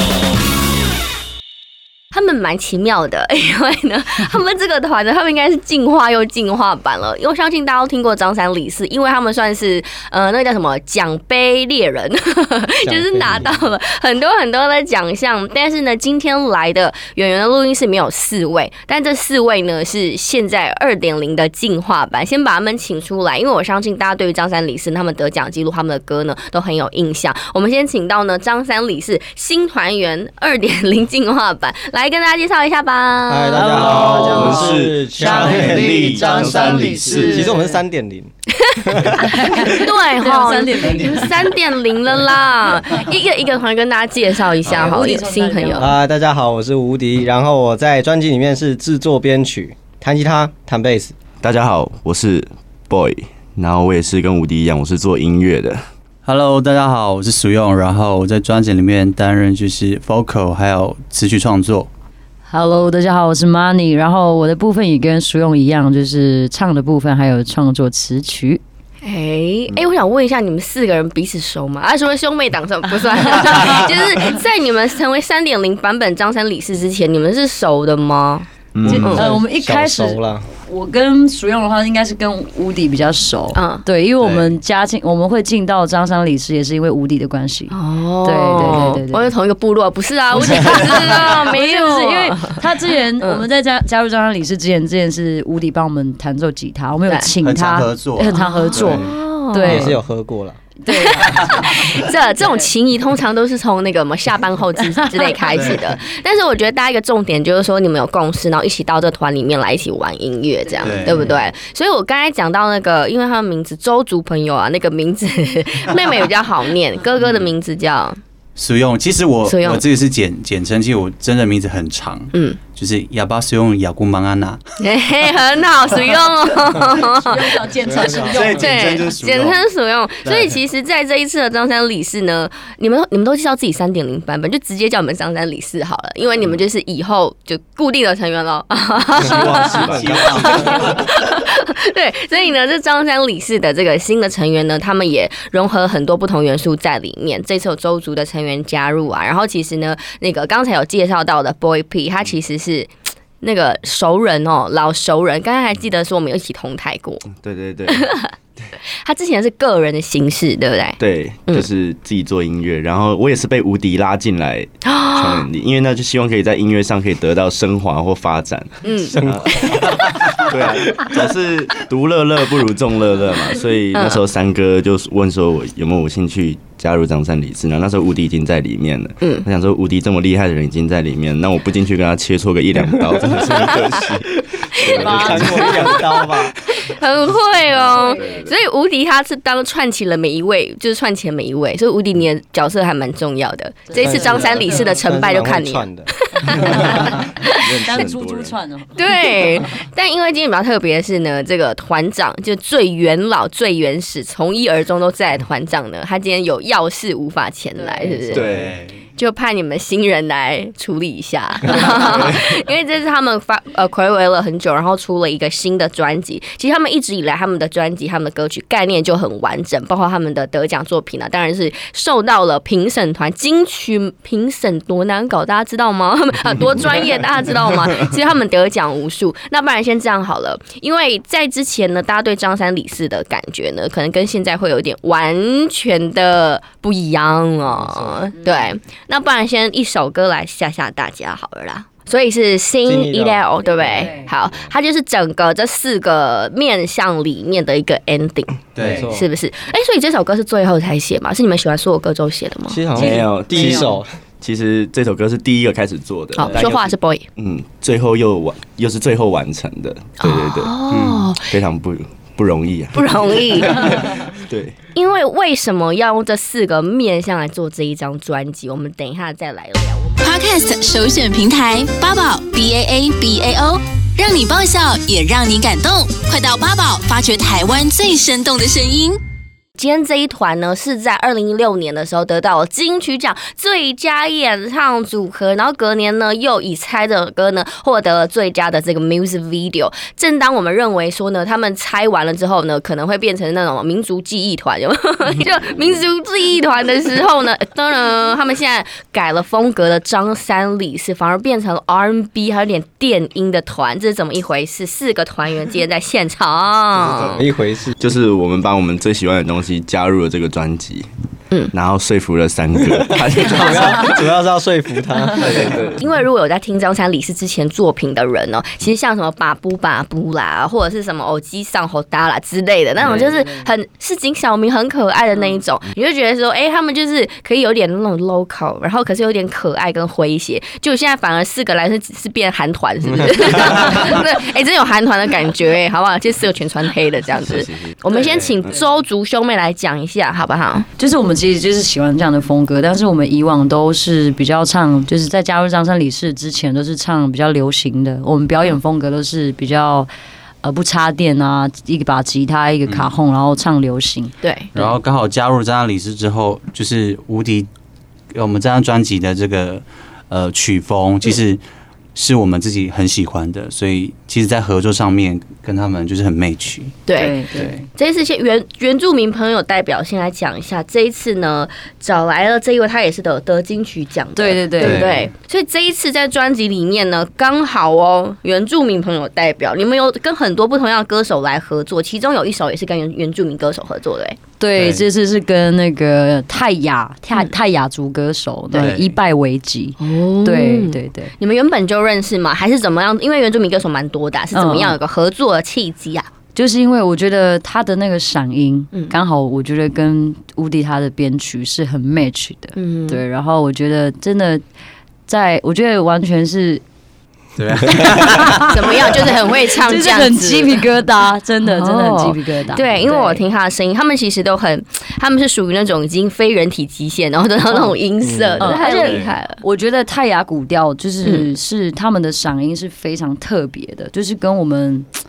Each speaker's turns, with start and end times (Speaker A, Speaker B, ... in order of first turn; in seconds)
Speaker A: 2.1-34.0, 39.6-45.9, 69.0-79.3, 83.5-83.8, 87.7-92.7, 93.2-93.5, 98.3-99.9, 100.9-118.2, 119.5-119.8, 122.3-122.6, 124.8-157.2, 157.9-158.3, 159.0-161.7, 164.9-165.5, 168.8-170.2, 173.9-174.2, 179.2-179.5, 183.5-183.9, 184.9-197.5, 199.0-208.5, 209.2-253.7, 256.4-257.3, 260.2-261.6, 262.9-264.2, 264.9-270.3, 279.8-307.5, 313.4-314.1, 315.4-340.9, 354.4-354.7, 367.1-367.4, 367.9-384.4, 390.0-396.3, 402.8-403.2, 408.6-410.8, 411.6-419.6, 421.2-421.5
Speaker B: 12.8-13.7, 33.3-36.1, 37.1-38.3, 38.8-39.2, 45.8-51.1, 79.0-80.5, 99.7-100.6, 127.8-128.7, 169.1-171.0, 184.9-186.6, 194.0-196.1, 242.8-243.5, 248.8-249.3, 252.7-254.1, 307.2-307.9, 312.8-315.9, 418.2-418.7
Speaker C: 33.5-37.8, 39.2-41.3, 44.6-46.0, 62.5-68.6, 78.8-89.3, 90.3-100.0, 100.8-102.7, 127.0-128.7, 185.2-185.5, 187.9-188.5, 193.9-195.1, 196.3-197.3, 197.8-199.4, 207.8-208.2, 238.3-238.7, 243.6-244.3, 323.3-323.7, 341.0-350.1, 350.6-354.9, 367.2-367.9, 374.4-375.1, 384.6-391.3, 394.5-395.0, 396.6-404.6, 405.3-406.8, 408.0-408.7, 409.8-413.4, 417.7-417.9, 418.6-425.1
Speaker D: 33.8-37.4, 51.4-55.8, 78.7-79.2, 139.2-140.9, 157.3-158.1, 161.0-169.7, 170.4-186.0, 187.6-188.6, 197.5-198.6, 208.3-208.7, 211.8-212.4, 244.5-244.7, 253.0-260.8, 261.4-264.8, 295.5-295.9, 306.9-311.1, 311.7-314.2, 315.4-316.0, 323.0-323.3, 337.4-338.0
Speaker E: 35.5-37.5, 56.2-61.9, 84.2-84.6, 97.4-99.0, 105.4-106.0, 110.8-111.4, 118.6-124.6, 128.2-129.7, 130.2-130.6, 139.3-141.1, 208.2-209.1, 248.7-249.2, 260.9-261.4, 338.1-338.7, 352.9-353.1, 354.7-357.7, 358.3-361.6, 362.1-367.7, 374.8-375.3, 384.8-385.0, 388.7-389.2, 407.6-408.8, 418.9-419.4
Speaker F: 270.2-279.2